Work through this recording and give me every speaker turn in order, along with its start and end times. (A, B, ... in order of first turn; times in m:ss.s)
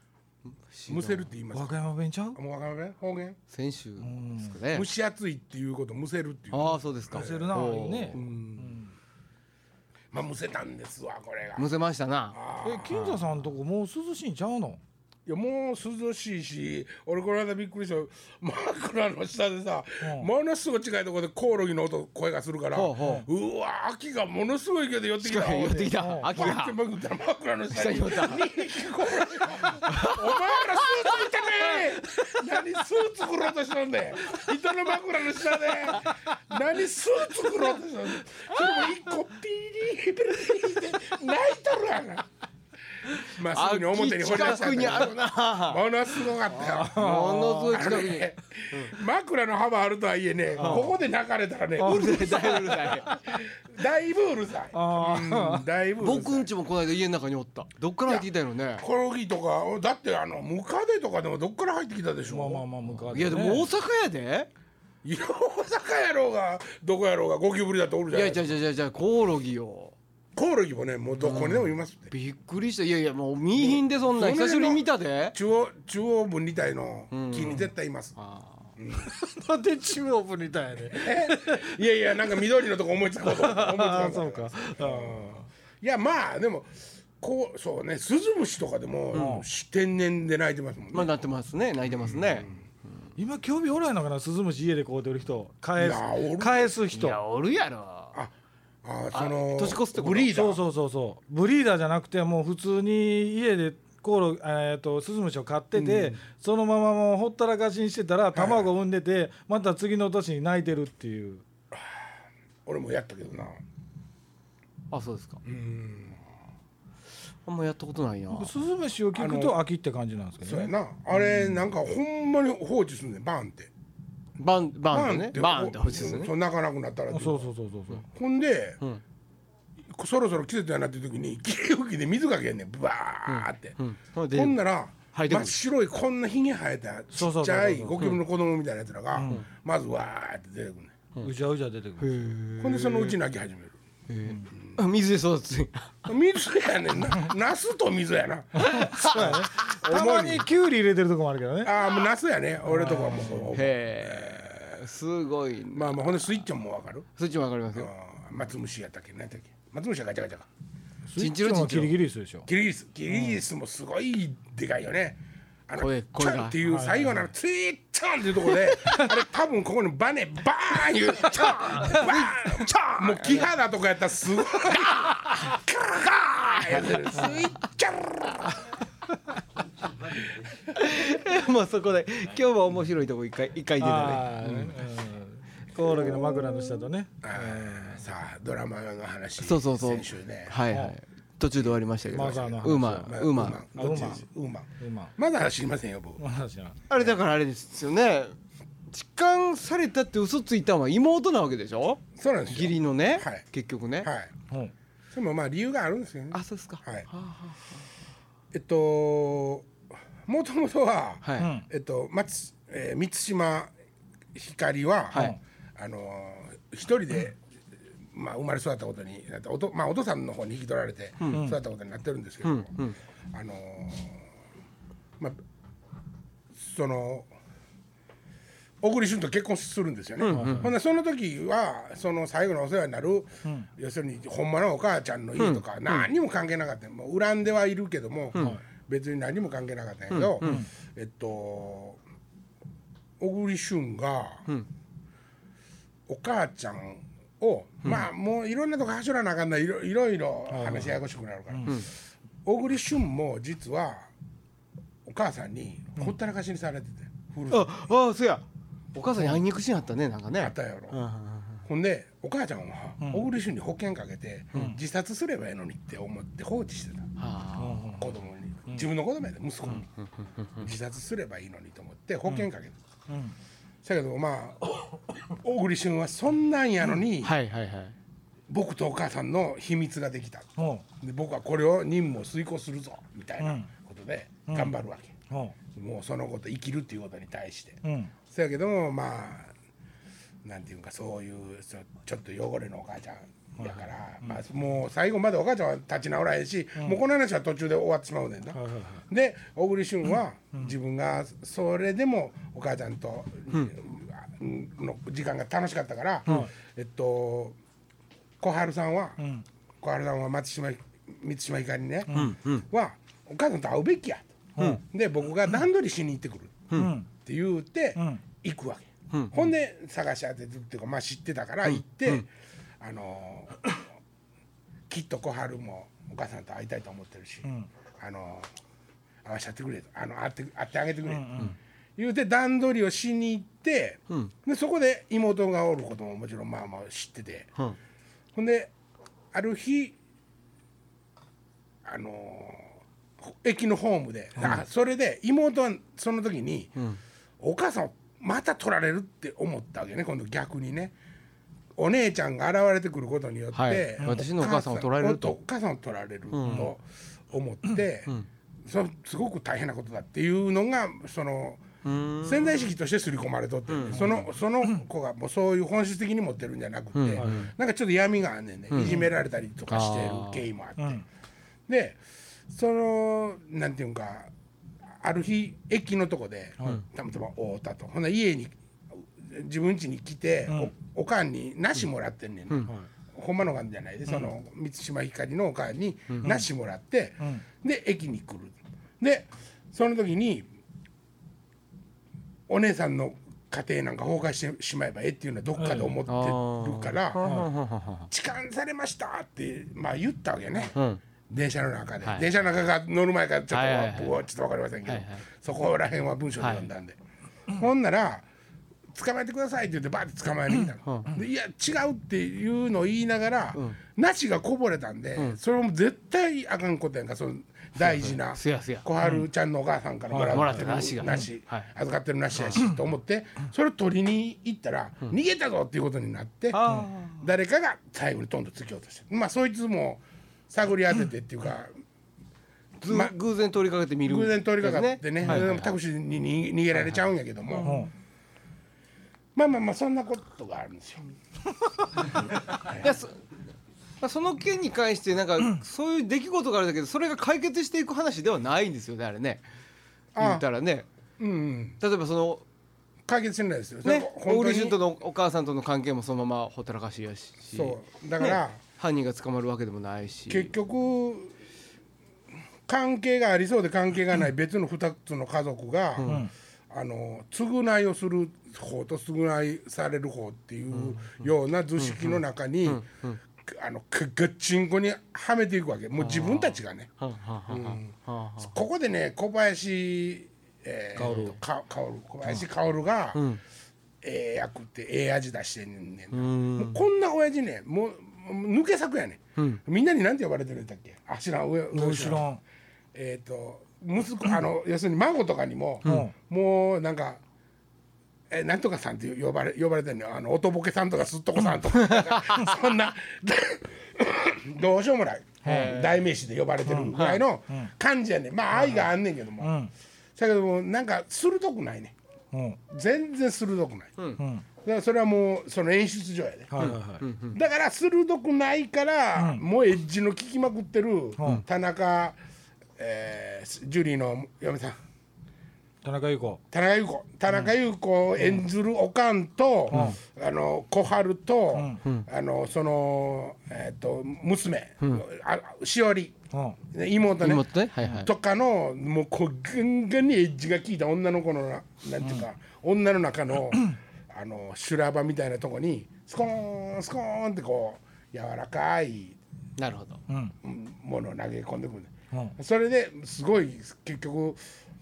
0:00.4-0:01.3 A
0:00.9-0:01.8 B
0:01.5-0:02.4 C
0:02.4-0:03.4 B
0:03.5-0:04.9 A
0:04.0-0:04.6 C
0:04.7-0:08.8 B
0:06.5-0:08.2 A
0:07.1-0:08.9 C
0:10.1-0:11.7 B
0:11.6-0:13.4 A
0:12.3-0:13.2 B
0:12.6-0:14.8 C
0:15.3-0:42.3 B
0:20.0-0:20.3 C
0:22.7-0:23.3 A
0:23.0-0:23.3 C
0:25.2-0:26.8 A
0:26.0-0:26.3 C
0:27.7-0:28.5 A
0:29.4-0:32.5 A
0:34.2-0:34.7 A
0:35.6-0:36.2 A
0:38.5-0:38.9 A
0:43.1-0:49.0 A
0:43.2-0:56.5 B
0:46.5-0:48.0 C
0:50.6-0:50.9 A
0:50.6-0:50.9 C
0:51.8-0:53.1 A
0:52.0-0:53.3 C
0:54.7-0:55.7 C
0:56.0-0:58.8 A
0:58.1-1:02.7 B
1:02.3-1:03.7 C
1:03.0-1:04.5 A
1:05.0-1:08.6 B
1:08.1-1:10.0 A
1:10.4-1:12.1 B
1:11.2-1:15.4 A
1:13.6-1:18.1 B
1:17.1-1:18.7 A
1:18.8-1:19.1 B
1:19.2-1:21.7 C
1:20.9-1:31.1 B
1:23.3-1:25.4 C
1:29.1-1:29.4 A
1:29.1-1:29.5 C
1:30.9-1:32.5 A
1:32.0-1:32.6 B
1:33.2-1:37.2 C
1:35.8-1:36.8 B
1:36.9-1:38.2 A
1:38.1-1:40.6 B
1:39.1-1:40.3 A
1:40.3-1:51.4 C
1:45.8-1:46.2 B
1:48.3-1:48.7 B
1:51.7-1:52.1 B
1:52.7-1:53.6 B
1:54.9-1:55.4 A
1:55.4-1:56.2 B
1:57.5-1:58.5 A
1:58.3-2:00.7 C
1:59.2-1:59.6 B
2:00.4-2:03.7 B
2:01.2-2:01.6 A
2:04.4-2:06.3 A
2:04.9-2:07.5 B
2:07.1-2:08.0 C
2:08.1-2:08.8 B
2:09.8-2:13.8 B
2:13.3-2:14.6 A
2:14.3-2:21.0 B
2:15.1-2:15.6 A
2:17.1-2:18.0 C
2:19.1-2:19.4 C
2:21.2-2:22.2 C
2:22.0-2:23.2 A
2:22.6-2:23.8 B
2:24.1-2:26.0 A
2:26.1-2:30.5 B
2:28.6-2:29.5 A
2:28.6-2:31.8 C
2:31.6-2:34.8 B
2:32.7-2:33.6 C
2:33.2-2:36.1 A
2:35.7-2:37.1 B
2:37.2-2:37.9 A
2:37.7-2:40.5 B
2:41.1-2:42.5 C
2:41.2-2:42.0 A
2:42.5-2:58.8 B
2:43.1-2:43.4 A
2:45.8-2:46.6 A
2:46.7-2:47.2 C
2:48.5-2:49.2 A
2:51.3-2:53.5 A
2:54.6-2:55.4 A
2:56.9-2:57.4 A
3:00.1-3:04.7 A
3:03.8-3:08.1 C
3:05.8-3:10.6 B
3:09.4-3:13.6 A
3:11.7-3:16.2 B
3:12.1-3:14.2 C
3:14.8-3:15.1 C
3:16.2-3:16.8 C
3:16.9-3:18.4 A
3:18.9-3:24.1 A
3:22.1-3:23.4 B
3:24.0-3:24.3 B
3:25.1-3:27.1 B
3:26.3-3:27.9 A
3:28.5-3:29.7 B
3:30.2-3:33.7 B
3:31.2-3:31.5 A
3:31.4-3:31.6 C
3:34.3-3:37.4 B
3:35.1-3:35.4 A
3:38.1-3:42.7 B
3:41.2-3:41.5 A
3:41.3-3:41.6 C
3:42.4-3:43.0 A
3:43.3-3:44.3 B
3:46.5-3:47.3 B
3:48.8-4:02.0 B
3:50.2-3:50.7 A
3:50.3-3:50.7 C
3:55.4-3:56.0 A
4:00.1-4:00.6 A
4:00.4-4:00.7 C
4:03.2-4:04.4 B
4:06.1-4:11.8 B
4:10.5-4:11.0 C
4:12.4-4:14.1 B
4:15.1-4:17.7 B
4:17.5-4:21.6 A
4:20.4-4:21.0 B
4:21.6-4:27.1 B
4:27.2-4:27.9 A
4:27.6-4:28.8 C
4:28.0-4:29.9 B
4:29.6-4:30.6 A
4:30.6-4:32.8 B
4:33.1-4:33.4 C
4:33.8-4:37.4 B
4:37.2-4:38.0 A
4:38.5-4:45.2 B
4:40.6-4:40.8 C
4:43.4-4:43.7 C
4:44.5-4:44.7 C
4:45.3-4:45.6 C
4:45.7-4:49.5 B
4:47.8-4:48.1 C
4:50.4-5:07.6 B
4:53.6-4:54.4 C
4:58.5-4:59.0 C
5:06.3-5:06.5 C
5:08.4-5:09.2 B
5:09.2-5:09.4 C
5:09.8-5:16.7 B
5:12.1-5:12.4 C
5:12.1-5:12.6 A
5:16.7-5:17.1 C
5:17.2-5:22.3 B
5:18.0-5:18.2 C
5:19.1-5:19.4 A
5:21.6-5:22.2 A
5:22.8-5:23.7 B
5:24.9-5:27.5 B
5:28.0-5:28.5 B
5:29.2-5:31.4 B
5:31.1-5:31.6 C
5:32.0-5:37.5 B
5:38.4-5:38.7 B
5:39.3-5:40.0 B
5:41.8-5:46.8 B
5:47.4-5:51.0 B
5:51.8-5:58.1 B
5:53.5-5:55.4 A
5:56.3-5:56.7 A
5:58.6-6:01.6 B
6:01.8-6:02.7 A
6:02.2-6:11.0 B
6:03.7-6:04.1 A
6:07.0-6:07.5 A
6:07.2-6:07.5 C
6:08.7-6:09.1 A
6:09.7-6:10.4 A
6:10.8-6:11.0 C
6:11.7-6:14.3 B
6:15.0-6:30.5 B
6:32.5-6:37.2 B
6:35.6-6:36.0 C
6:36.1-6:38.1 A
6:37.2-6:37.5 C
6:38.1-6:40.8 B
6:40.7-6:41.0 A
6:41.3-6:47.0 B
6:43.5-6:44.2 A
6:44.9-6:45.2 A
6:46.4-6:46.7 A
6:47.5-6:48.3 B
6:48.9-7:06.6 B
6:50.8-6:51.1 A
6:57.8-6:58.9 A
7:00.1-7:01.7 A
7:00.2-7:00.5 C
7:02.4-7:02.6 A
7:06.5-7:07.2 A
7:07.2-7:11.7 B
7:12.8-7:15.7 A
7:12.9-7:13.1 B
7:14.0-7:17.8 B
7:16.7-7:17.9 A
7:17.6-7:17.9 C
7:19.4-7:21.1 B
7:22.6-7:22.9 B
7:22.7-7:23.2 A
7:24.0-7:29.4 A
7:30.2-7:30.4 B
7:30.2-7:30.9 A
7:31.2-7:31.8 B
7:31.8-7:32.4 A
7:33.1-7:34.8 B
7:33.8-7:40.5 A
7:37.5-7:38.6 B
7:40.3-7:41.3 B
7:42.7-7:52.8 B
7:46.0-7:46.3 A
7:50.7-7:51.3 A
7:51.8-7:53.2 A
7:53.4-7:56.9 B
7:56.0-7:58.6 A
7:57.5-8:03.2 B
8:01.0-8:01.4 C
8:01.0-8:01.3 A
8:03.1-8:03.4 A
8:04.0-8:12.3 B
8:06.1-8:06.8 A
8:11.7-8:12.4 C
8:12.9-8:17.2 B
8:15.8-8:16.1 A
8:15.8-8:16.1 C
8:18.3-8:29.5 B
8:21.7-8:22.6 A
8:25.4-8:25.9 C
8:25.4-8:25.9 A
8:26.7-8:27.7 C
8:26.9-8:27.2 A
8:28.6-8:28.8 C
8:29.4-8:29.7 C
8:30.2-8:32.0 B
8:32.3-8:32.6 C
8:32.7-8:33.9 B
8:34.2-8:34.4 C
8:34.6-8:36.5 B
8:36.5-8:37.0 C
8:36.6-8:37.4 A
8:37.3-8:42.2 B
8:39.2-8:39.4 C
8:41.2-8:41.4 C
8:42.8-8:44.8 B
8:45.8-8:46.4 C
8:46.5-8:56.2 B
8:49.7-8:50.0 C
8:51.5-8:51.8 C
8:56.3-8:56.6 C
8:56.7-9:09.2 B
8:57.2-8:58.1 A
9:09.6-9:10.0 A
9:10.1-9:10.3 C
9:10.4-9:14.4 B